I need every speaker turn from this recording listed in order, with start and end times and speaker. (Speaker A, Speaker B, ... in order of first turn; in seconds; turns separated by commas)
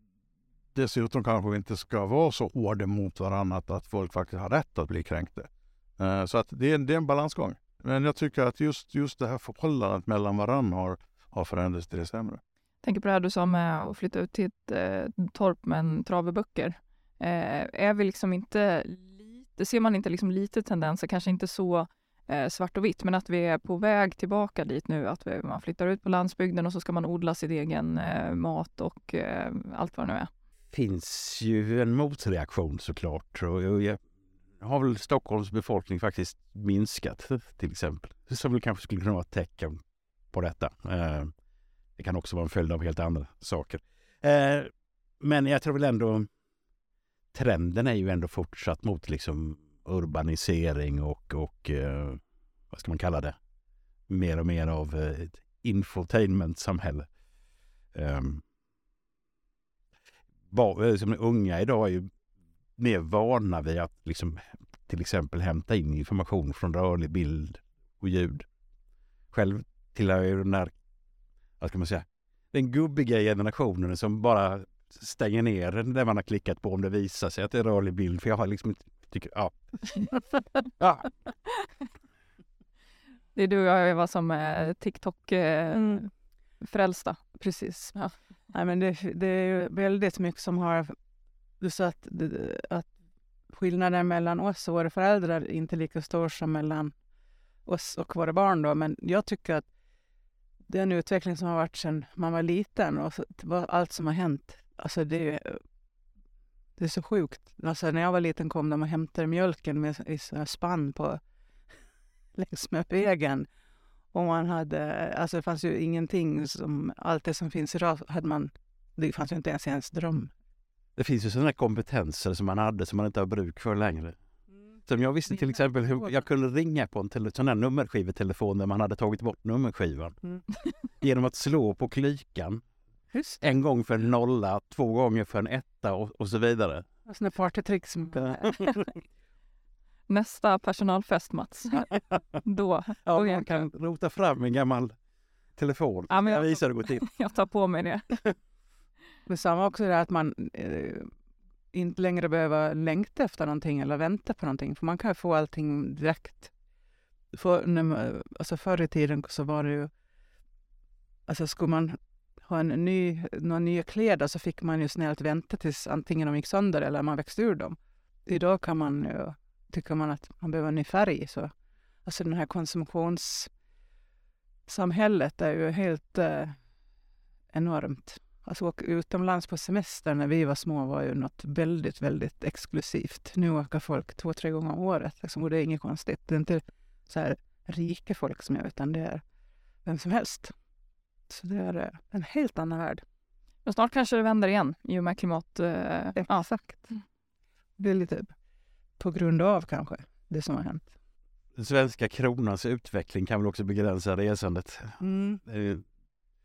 Speaker A: 0.7-12.4, Speaker B: 12.8-30.3, Speaker C: 30.7-34.0, Speaker C: 34.6-39.8, Speaker C: 40.3-41.3, Speaker C: 42.0-46.3, Speaker C: 47.3-52.2, Speaker C: 52.7-53.4, Speaker C: 54.1-57.1, Speaker C: 58.0-58.4, Speaker C: 60.5-62.1, Speaker C: 62.8-68.5, Speaker C: 69.3-70.7, Speaker C: 71.6-80.2, Speaker C: 80.8-81.2, Speaker B: 83.3-86.1, Speaker D: 85.7-86.0, Speaker B: 86.6-87.2, Speaker D: 87.4-90.9, Speaker D: 91.6-92.9, Speaker D: 93.5-96.9, Speaker D: 97.7-99.7, Speaker D: 100.7-105.6, Speaker D: 106.8-111.2, Speaker D: 112.4-113.5, Speaker D: 114.1-120.3, Speaker C: 121.0-124.2, Speaker C: 124.8-130.2, Speaker C: 131.0-132.6, Speaker D: 133.1-133.4, Speaker C: 133.4-136.8, Speaker D: 137.1-138.6, Speaker C: 138.3-138.9, Speaker B: 140.1-141.9, Speaker B: 142.4-143.6, Speaker C: 143.0-144.9, Speaker C: 145.6-147.1, Speaker B: 146.1-148.1, Speaker D: 149.3-151.1, Speaker D: 151.7-156.5, Speaker D: 157.3-159.9, Speaker D: 161.3-171.5, Speaker D: 172.1-173.5, Speaker D: 174.7-176.6, Speaker D: 177.5-189.2, Speaker D: 189.8-190.5, Speaker D: 191.3-193.0, Speaker B: 193.7-196.4, Speaker D: 196.2-196.9, Speaker D: 197.8-198.3, Speaker D: 199.0-200.9, Speaker C: 201.6-205.8, Speaker D: 205.0-205.4